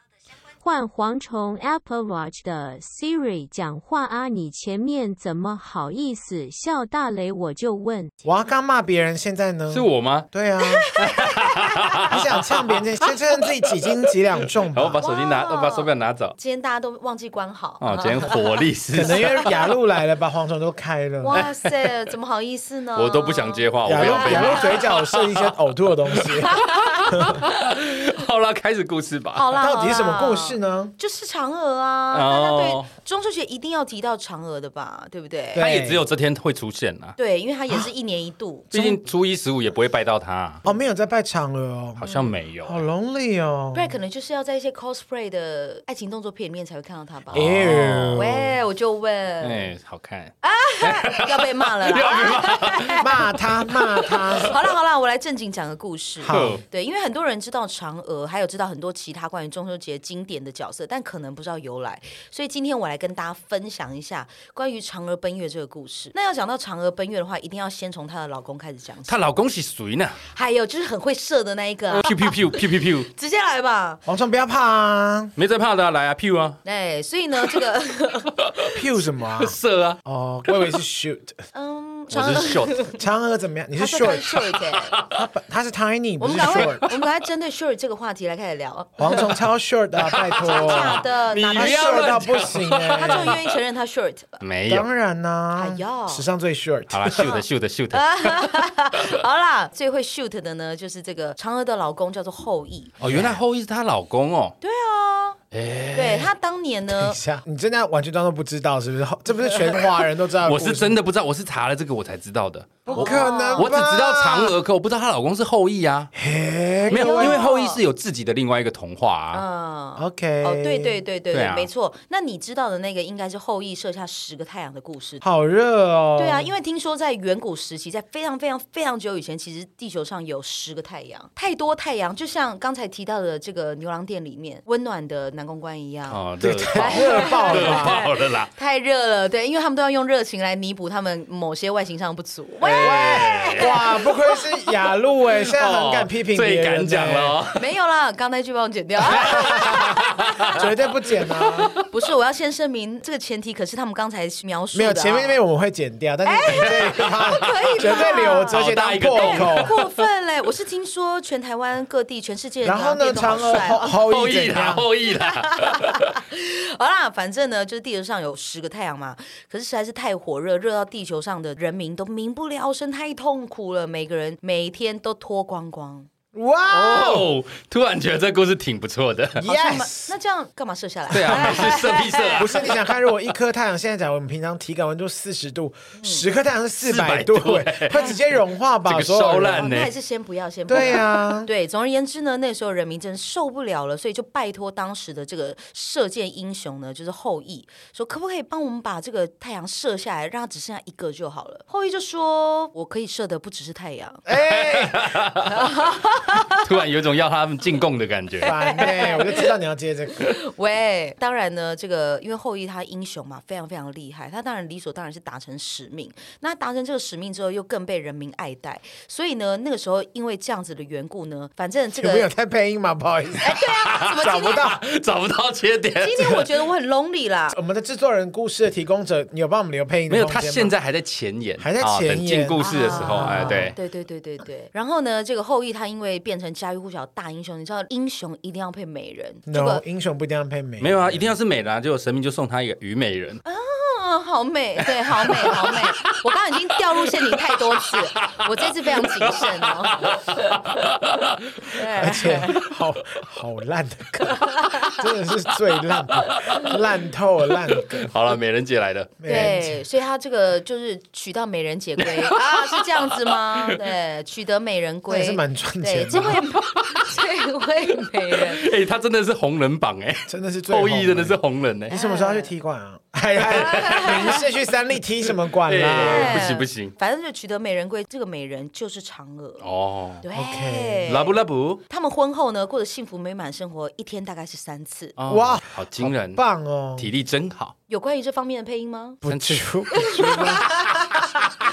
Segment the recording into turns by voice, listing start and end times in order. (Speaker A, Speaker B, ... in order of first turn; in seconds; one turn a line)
Speaker A: 0.6-8.1
Speaker B: 8.2-10.9
Speaker C: 9.7-10.3
Speaker D: 10.6-12.1
Speaker C: 11.0-12.8
Speaker B: 12.0-15.0
Speaker C: 14.7-16.4
Speaker D: 15.0-19.5
Speaker C: 17.8-19.3
Speaker B: 18.9-21.4
Speaker D: 21.2-24.8
Speaker C: 23.0-25.5
Speaker B: 23.9-27.4
Speaker C: 26.1-29.5
Speaker D: 26.4-27.5
Speaker D: 29.4-35.6
Speaker B: 29.6-30.9
Speaker C: 32.1-32.9
Speaker B: 35.5-36.0
Speaker C: 35.6-37.2
Speaker D: 37.2-39.0
Speaker C: 38.7-40.6
Speaker B: 40.6-42.0
Speaker C: 42.0-42.8
Speaker D: 42.0-42.3
Speaker B: 42.6-43.9
Speaker D: 43.7-47.5
Speaker C: 47.3-48.3
Speaker B: 47.3-48.5
Speaker D: 48.1-49.7
Speaker C: 49.4-53.2
Speaker D: 50.4-69.2
Speaker B: 53.0-54.6
Speaker C: 53.8-54.5
Speaker B: 56.2-56.6
Speaker C: 56.3-56.6
Speaker C: 69.1-70.2
Speaker D: 70.2-74.0
Speaker C: 71.9-73.1
Speaker B: 74.1-75.3
Speaker C: 75.4-76.6
Speaker D: 76.7-78.4
Speaker C: 78.5-78.7
Speaker B: 78.7-81.4
Speaker C: 79.4-80.0
Speaker D: 81.5-83.0
Speaker C: 82.1-82.9
Speaker B: 83.0-84.4
Speaker D: 83.8-85.0
Speaker C: 84.9-85.2
Speaker B: 85.1-86.8
Speaker D: 86.2-89.3
Speaker C: 86.5-87.0
Speaker B: 89.0-93.4
Speaker C: 90.1-93.5
Speaker D: 90.4-92.2
Speaker D: 93.0-94.4
Speaker C: 94.4-94.9
Speaker B: 94.7-97.4
Speaker D: 95.5-96.3
Speaker C: 96.9-98.5
Speaker D: 97.1-103.0
Speaker C: 103.0-104.6
Speaker B: 103.1-103.4
Speaker D: 104.6-105.4
Speaker C: 105.5-106.3
Speaker D: 105.9-107.2
Speaker B: 106.9-111.0
Speaker C: 110.4-116.1
Speaker B: 112.9-114.6
Speaker D: 112.9-113.7
Speaker B: 116.2-117.4
Speaker D: 116.9-117.8
Speaker C: 116.9-119.4
Speaker D: 119.3-125.2
Speaker B: 120.0-121.0
Speaker C: 121.3-121.7
Speaker B: 125.2-126.5
Speaker D: 126.2-144.4
Speaker C: 136.1-138.5
Speaker B: 136.4-138.0
Speaker C: 142.6-143.9
Speaker B: 142.8-147.4
Speaker C: 145.4-147.7
Speaker D: 147.5-150.6
Speaker C: 149.1-150.7
Speaker B: 149.1-150.0
Speaker B: 150.5-151.7
Speaker C: 151.4-151.7
Speaker D: 151.7-155.4
Speaker B: 154.7-159.8
Speaker D: 156.2-164.0
Speaker C: 156.6-160.1
Speaker B: 162.6-164.9
Speaker C: 163.8-166.2
Speaker D: 165.2-176.1
Speaker B: 176.3-177.3
Speaker C: 176.7-179.4
Speaker B: 179.4-180.2
Speaker D: 179.4-182.5
Speaker C: 181.1-182.7
Speaker B: 181.4-181.7
Speaker B: 182.4-189.7
Speaker D: 186.0-186.2
Speaker C: 186.8-188.1
Speaker C: 188.8-189.9
Speaker D: 189.5-204.2
Speaker B: 190.7-191.5
Speaker B: 204.3-205.2
Speaker C: 204.4-205.5
Speaker D: 205.5-206.6
Speaker C: 206.5-208.9
Speaker B: 208.4-210.3
Speaker D: 208.5-209.5
Speaker D: 210.2-222.3
Speaker B: 222.0-224.8
Speaker D: 223.4-224.7
Speaker C: 223.8-226.5
Speaker D: 226.0-227.6
Speaker B: 227.5-230.7
Speaker C: 230.1-233.8
Speaker B: 231.6-233.8
Speaker D: 232.6-239.8
Speaker B: 239.5-241.3
Speaker C: 240.8-243.4
Speaker D: 243.4-250.6
Speaker C: 245.1-246.2
Speaker C: 247.9-251.7
Speaker D: 251.7-252.6
Speaker B: 251.9-258.1
Speaker D: 254.2-255.0
Speaker C: 256.2-256.8
Speaker C: 257.7-259.5
Speaker B: 259.2-259.8
Speaker D: 259.3-268.7
Speaker C: 262.0-263.8
Speaker B: 265.1-266.4
Speaker C: 266.3-267.1
Speaker C: 268.4-271.9
Speaker B: 270.3-271.4
Speaker B: 271.9-276.4
Speaker D: 271.9-272.5
Speaker D: 273.5-274.4
Speaker C: 273.6-274.4
Speaker C: 275.6-276.9
Speaker D: 276.0-279.7
Speaker C: 279.6-280.2
Speaker D: 280.2-281.4
Speaker B: 280.3-281.1
Speaker C: 281.1-281.8
Speaker D: 281.9-285.1
Speaker C: 285.2-286.4
Speaker B: 285.3-287.1
Speaker C: 287.0-287.7
Speaker D: 287.9-289.2
Speaker B: 289.2-290.7
Speaker C: 289.3-291.5
Speaker D: 289.9-291.2